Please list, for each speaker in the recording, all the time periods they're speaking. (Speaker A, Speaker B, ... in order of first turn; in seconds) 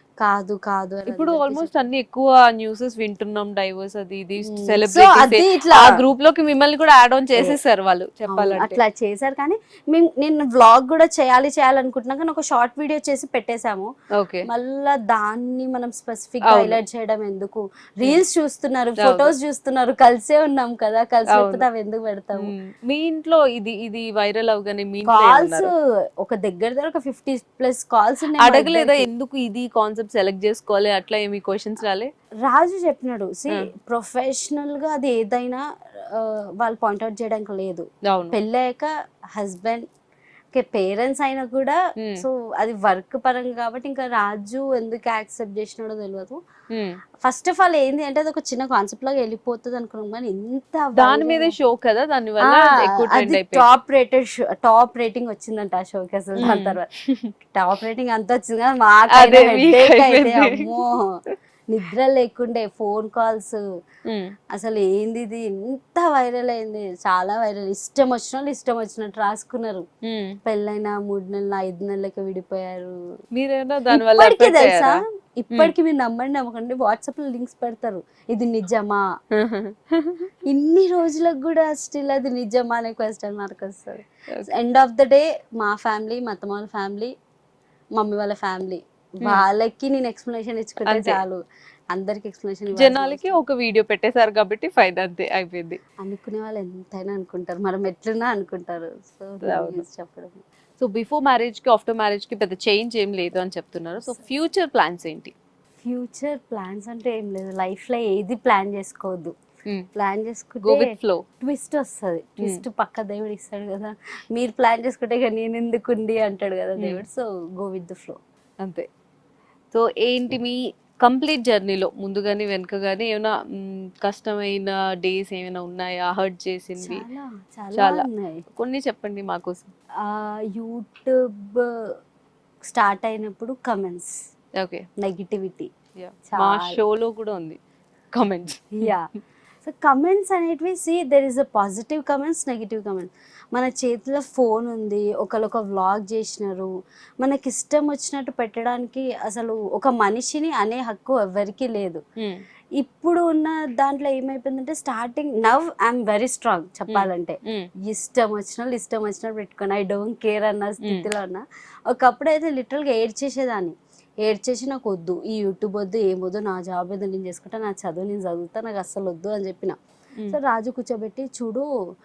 Speaker A: 0.2-1.7, 4.5-6.0, 8.3-13.9, 14.5-22.5, 25.1-29.1, 32.4-39.9, 40.5-46.4, 47.2-51.5, 52.5-56.9, 57.5-61.1, 61.7-63.6, 64.5-69.8, 70.5-73.0, 73.9-79.0, 80.5-87.1, 88.0-91.4, 91.9-93.4, 96.0-100.4, 105.8-109.3, 110.0-118.2, 126.8-128.4, 130.0-131.8, 132.6-134.2, 135.0-135.7, 136.3-136.8, 138.8-139.1, 139.6-152.0, 152.8-169.8, 170.3-171.7
Speaker B: 1.1-8.8, 14.2-14.4, 16.4-16.8, 19.0-19.3, 21.3-21.7, 22.4-25.7, 28.4-32.1, 38.1-38.4, 42.0-42.2, 46.7-47.0, 51.0-53.7, 56.4-56.8, 59.1-60.7, 64.1-64.3, 70.0-70.3, 73.3-75.7, 79.4-80.2, 90.8-91.2, 92.7-95.8, 99.4-99.8, 100.8-105.3, 110.6-111.2, 116.8-117.0, 119.7-127.0, 127.7-129.7, 134.6-134.8, 136.0-137.6, 138.1-138.9, 156.9-157.7, 160.8-161.1